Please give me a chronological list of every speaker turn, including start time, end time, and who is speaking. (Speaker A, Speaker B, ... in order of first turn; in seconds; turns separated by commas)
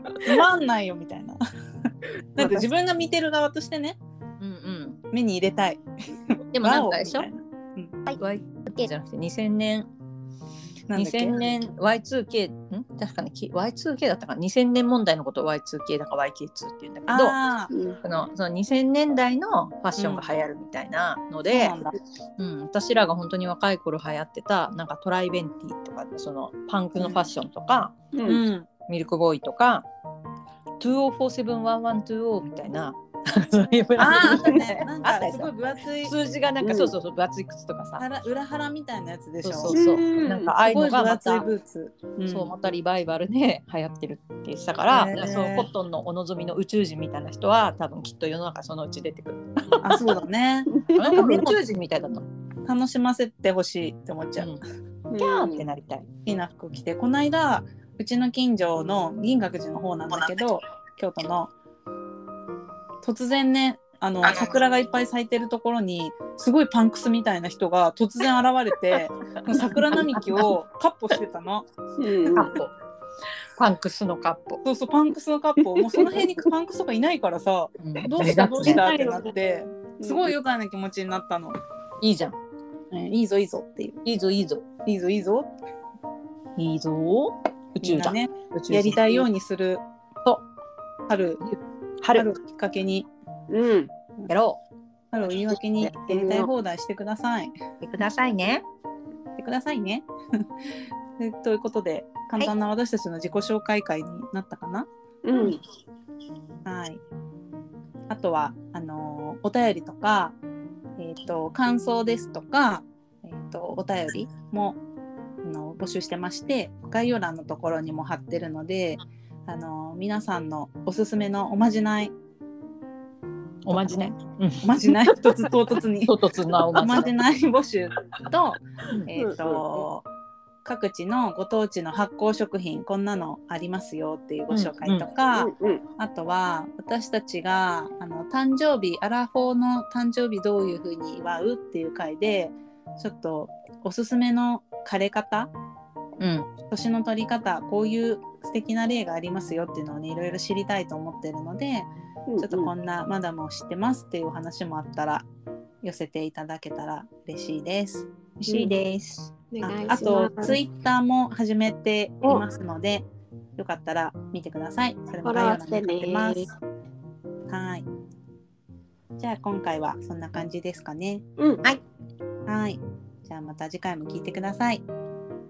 Speaker A: 0.2-1.4, Speaker A: 2.4-4.0, Speaker B: 4.4-5.0, Speaker A: 5.1-5.8, Speaker B: 6.5-7.3, Speaker A: 6.5-8.0, Speaker B: 8.1-9.9, Speaker A: 10.9-11.4, Speaker B: 10.9-17.4, Speaker A: 17.1-17.7, Speaker C: 17.7-18.0, Speaker B: 18.0-21.8, Speaker A: 20.0-20.3, Speaker A: 21.5-21.9, Speaker B: 22.4-28.0, Speaker A: 27.0-27.3, Speaker C: 28.1-28.4, Speaker A: 28.2-28.7, Speaker B: 28.9-29.9, Speaker B: 30.8-35.5, Speaker A: 34.0-36.1, Speaker B: 36.0-38.0, Speaker C: 36.6-36.9, Speaker A: 38.0-39.8, Speaker B: 39.4-41.5, Speaker C: 39.7-40.6, Speaker A: 40.6-42.5, Speaker B: 42.3-50.0, Speaker A: 44.9-45.7, Speaker A: 49.8-51.5, Speaker C: 50.7-51.0, Speaker B: 50.9-52.3, Speaker A: 52.6-54.5, Speaker B: 54.4-54.6, Speaker C: 55.1-55.7, Speaker B: 55.2-56.1, Speaker A: 56.3-61.5, Speaker A: 63.0-71.7, Speaker B: 69.6-70.5, Speaker C: 72.0-72.5, Speaker B: 72.3-72.7, Speaker B: 73.6-74.6, Speaker A: 74.6-81.6, Speaker C: 75.7-76.1, Speaker B: 77.8-78.9, Speaker C: 78.6-79.3, Speaker C: 80.0-80.3, Speaker B: 82.0-82.3, Speaker A: 82.9-84.0, Speaker B: 84.0-84.7, Speaker A: 84.8-85.5, Speaker B: 86.6-89.2, Speaker A: 87.8-89.8, Speaker A: 91.1-91.4, Speaker B: 91.4-92.3, Speaker A: 92.1-93.1, Speaker C: 93.5-93.9, Speaker B: 94.3-94.6, Speaker A: 95.1-97.6, Speaker C: 95.8-96.5, Speaker B: 97.8-98.7, Speaker A: 99.4-100.1, Speaker A: 101.2-104.9, Speaker C: 105.2-105.6, Speaker A: 106.7-107.0, Speaker A: 108.1-110.4, Speaker A: 111.0-114.8, Speaker A: 115.4-122.1, Speaker B: 123.7-124.7, Speaker A: 123.7-124.0, Speaker A: 124.6-126.2, Speaker B: 126.0-127.1, Speaker A: 126.7-130.1, Speaker C: 129.2-129.9, Speaker A: 130.7-145.5, Speaker B: 134.5-135.1, Speaker C: 135.3-135.8, Speaker B: 146.2-146.5, Speaker A: 146.7-151.9, Speaker C: 152.3-152.7, Speaker A: 152.4-155.3, Speaker A: 155.8-158.8, Speaker B: 158.4-159.3, Speaker C: 158.5-158.8, Speaker C: 159.5-160.6, Speaker A: 159.6-163.1, Speaker A: 163.6-166.5, Speaker C: 165.2-166.5, Speaker A: 167.5-167.9, Speaker A: 169.2-171.2, Speaker C: 171.4-171.6, Speaker A: 172.5-174.8